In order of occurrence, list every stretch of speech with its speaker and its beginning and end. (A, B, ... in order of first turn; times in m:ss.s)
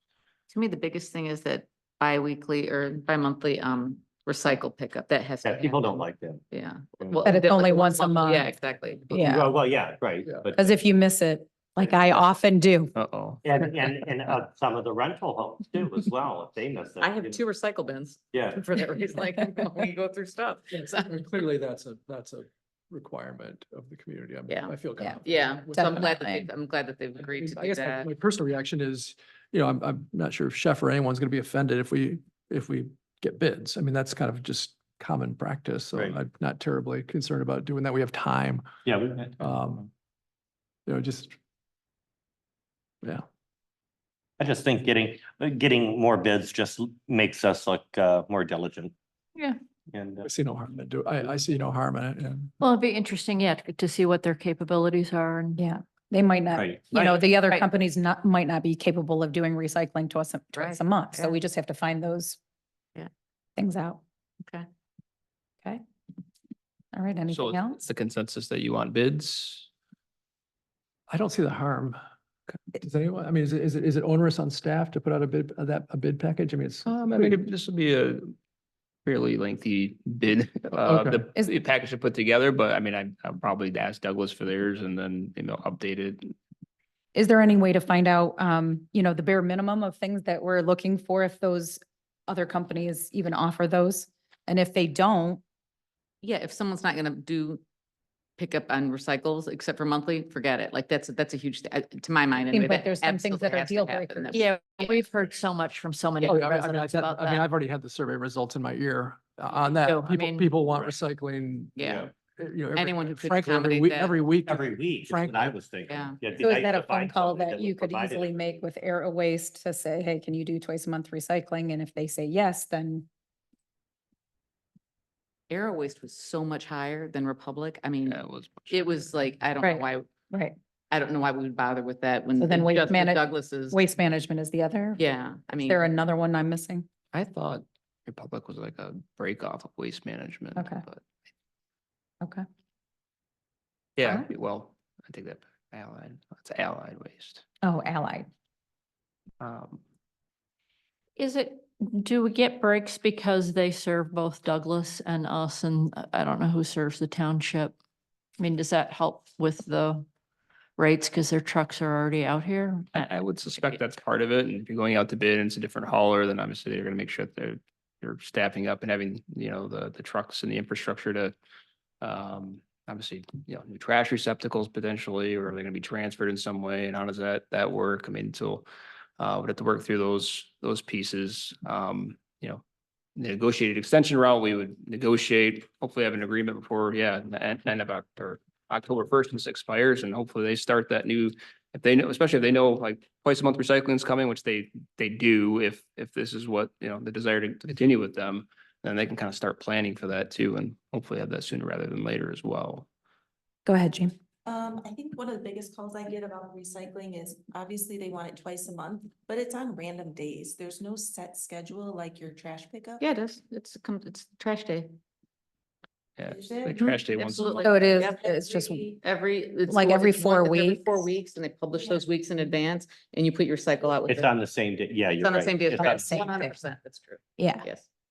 0:00.5-0:09.4 A
0:05.4-0:06.4 B
0:07.2-0:08.4 C
0:09.1-0:09.5 C
0:09.2-0:10.7 B
0:10.5-0:12.9 C
0:13.0-0:13.4 D
0:13.4-0:17.4 B
0:17.0-0:21.1 A
0:18.3-0:18.7 B
0:20.7-0:26.4 E
0:24.5-0:28.1 A
0:25.8-0:26.3 C
0:27.2-0:38.7 E
0:38.8-0:39.4 B
0:39.4-0:39.9 E
0:40.9-0:41.4 E
0:44.4-0:48.9 B
0:49.9-0:50.3 B
0:50.2-0:52.5 E
0:52.6-0:55.6 F
0:55.6-1:02.4 C
0:56.5-0:57.3 B
1:00.6-1:01.4 A
1:03.6-1:04.0 C
1:06.9-1:07.8 C
1:07.3-1:09.7 D
1:11.1-1:12.0 E
1:12.5-1:17.4 E
1:16.8-1:18.3 D
1:19.0-1:26.3 D
1:20.8-1:21.2 E
1:27.2-1:35.4 C
1:36.2-1:37.6 A
1:38.4-1:44.9 A
1:42.5-1:44.4 C
1:44.3-1:47.4 F
1:46.2-1:55.6 E
1:49.8-1:50.5 F
1:51.8-1:52.1 A
1:51.8-1:52.1 B
1:52.7-1:54.2 A
1:54.5-1:58.6 B
1:55.9-1:56.2 A
1:56.4-2:03.1 C
2:05.5-2:08.2 A
2:08.0-2:09.1 D
2:08.7-2:10.1 A
2:09.6-2:10.5 C
2:10.9-2:13.8 A
2:12.4-2:15.0 C
2:15.0-2:15.8 A
2:15.6-2:16.9 C
2:17.1-2:17.6 A
2:18.0-2:21.0 D
2:20.6-2:20.8 C
2:24.0-2:27.4 D
2:24.0-2:24.3 C
2:27.6-2:28.3 C
2:29.4-2:29.8 D
2:31.2-2:37.8 F
2:38.4-2:40.1 F
2:40.8-2:43.1 F
2:42.9-2:51.3 D
2:52.0-2:58.7 D
2:59.2-3:02.6 D
3:03.2-3:22.8 D
3:23.7-3:24.1 C
3:24.4-3:33.0 G
3:33.0-3:34.9 A
3:36.2-3:37.8 D
3:36.2-3:39.0 G
3:37.4-3:38.2 A
3:37.6-3:38.8 C
3:39.0-3:44.4 A
3:39.7-3:41.1 C
3:41.7-3:42.0 G
3:44.0-3:46.1 B
3:45.2-3:47.8 A
3:45.8-3:46.6 C
3:47.4-3:47.6 C